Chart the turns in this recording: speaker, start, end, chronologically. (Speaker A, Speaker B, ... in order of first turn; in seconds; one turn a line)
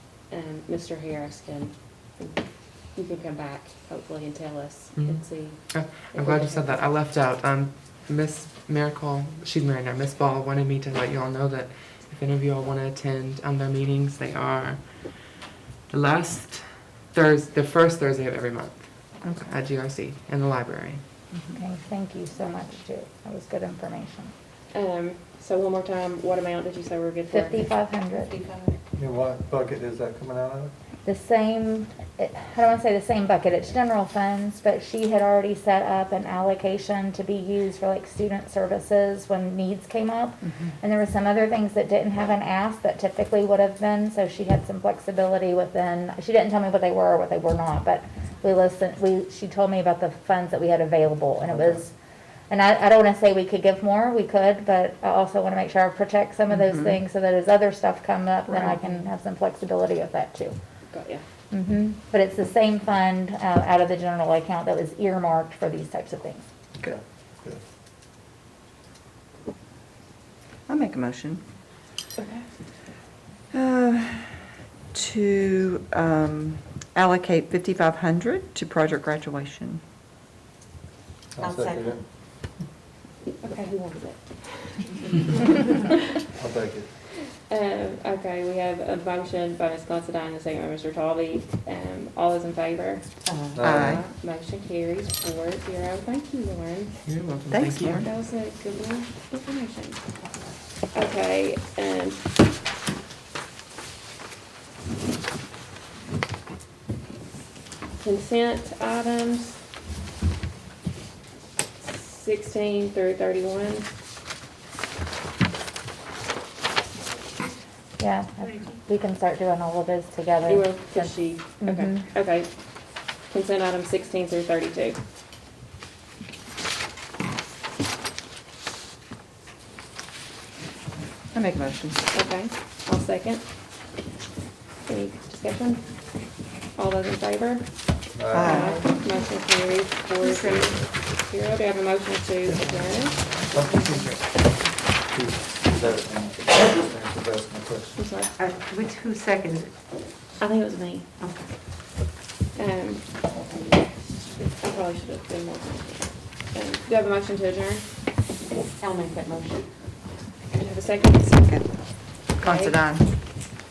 Speaker A: 0.3-2.4
Speaker A: 3.0-6.9
Speaker B: 5.7-15.4
Speaker B: 15.9-21.0
Speaker C: 21.5-24.3
Speaker A: 24.7-27.7
Speaker C: 27.3-28.3
Speaker D: 28.3-28.7
Speaker E: 28.9-30.7
Speaker C: 31.0-51.9
Speaker E: 51.4-51.8
Speaker C: 52.5-60.5
Speaker F: 56.6-56.9
Speaker A: 60.9-61.2
Speaker C: 61.5-66.4
Speaker E: 66.8-67.6
Speaker F: 70.7-71.4
Speaker A: 72.2-72.4
Speaker F: 73.5-79.8
Speaker E: 81.3-82.0
Speaker D: 81.4-82.0
Speaker A: 83.4-86.0
Speaker E: 86.4-86.9
Speaker A: 87.5-96.9
Speaker F: 93.2-94.0
Speaker E: 93.5-94.0
Speaker B: 97.0-98.1
Speaker F: 97.5-98.0
Speaker A: 98.0-100.0
Speaker A: 100.9-102.2
Speaker A: 108.0-109.6
Speaker A: 111.8-113.9
Speaker C: 118.0-122.0
Speaker A: 120.5-122.5
Speaker A: 123.3-125.0
Speaker F: 131.3-132.1
Speaker A: 132.1-133.4
Speaker A: 134.8-135.8
Speaker A: 136.8-137.7
Speaker E: 138.1-138.6
Speaker F: 138.3-138.9
Speaker A: 138.3-143.4
Speaker D: 140.2-140.6
Speaker B: 142.8-144.4
Speaker E: 143.5-143.9
Speaker E: 145.0-148.0
Speaker A: 148.0-148.3
Speaker D: 148.4-149.7
Speaker A: 150.4-151.1
Speaker A: 152.5-153.1
Speaker A: 154.3-157.8
Speaker D: 158.8-159.7
Speaker A: 160.5-161.6
Speaker A: 162.4-162.7
Speaker F: 162.4-163.1